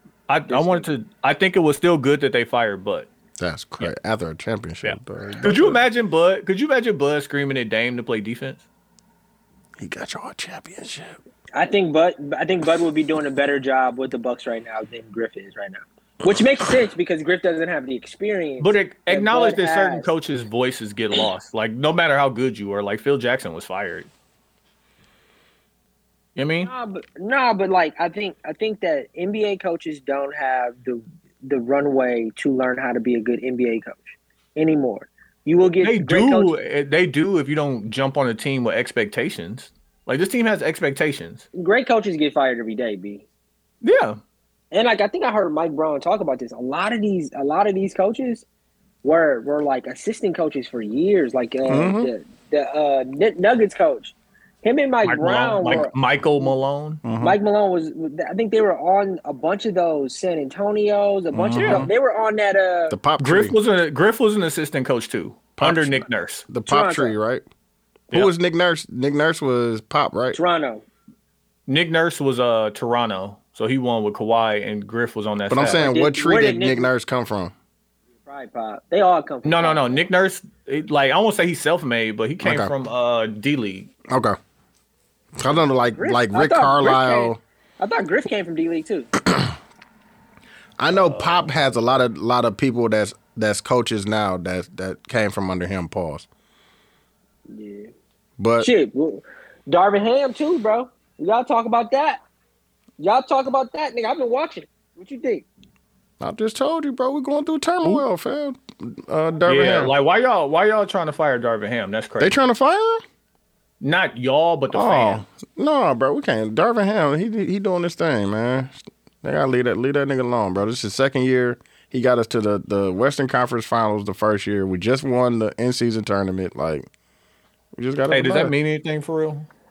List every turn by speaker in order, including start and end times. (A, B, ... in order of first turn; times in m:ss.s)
0:00.3-0:03.1 A
0:00.5-0:00.9 B
0:03.4-0:05.8 C
0:04.8-0:08.6 A
0:09.8-0:11.2 C
0:11.5-0:20.1 B
0:18.6-0:24.1 A
0:26.4-0:26.7 A
0:26.6-0:36.5 B
0:35.8-0:41.4 A
0:41.6-0:43.2 B
0:43.8-0:44.2 A
0:44.7-0:48.4 B
0:49.0-0:56.5 B
0:51.7-0:52.1 C
0:55.0-0:57.0 A
0:57.0-0:57.4 C
0:57.2-1:03.0 B
1:01.3-1:01.9 C
1:01.6-1:01.9 A
1:02.9-1:03.6 C
1:03.2-1:06.5 A
1:05.6-1:07.5 C
1:06.7-1:07.1 B
1:08.1-1:10.4 C
1:10.3-1:10.8 B
1:11.7-1:15.9 A
1:15.5-1:17.5 C
1:15.8-1:16.9 B
1:18.3-1:20.0 B
1:19.4-1:23.9 A
1:22.4-1:22.7 C
1:24.1-1:24.4 C
1:25.4-1:27.4 C
1:26.0-1:29.1 B
1:30.8-1:36.3 C
1:30.9-1:31.5 A
1:37.5-1:37.9 B
1:38.4-1:38.7 C
1:38.6-1:42.2 B
1:43.0-1:45.5 B
1:46.2-1:49.9 C
1:49.4-1:52.4 A
1:52.2-1:53.0 C
1:53.8-1:55.2 A
1:54.7-2:06.9 C
2:07.8-2:08.5 C
2:08.1-2:09.5 A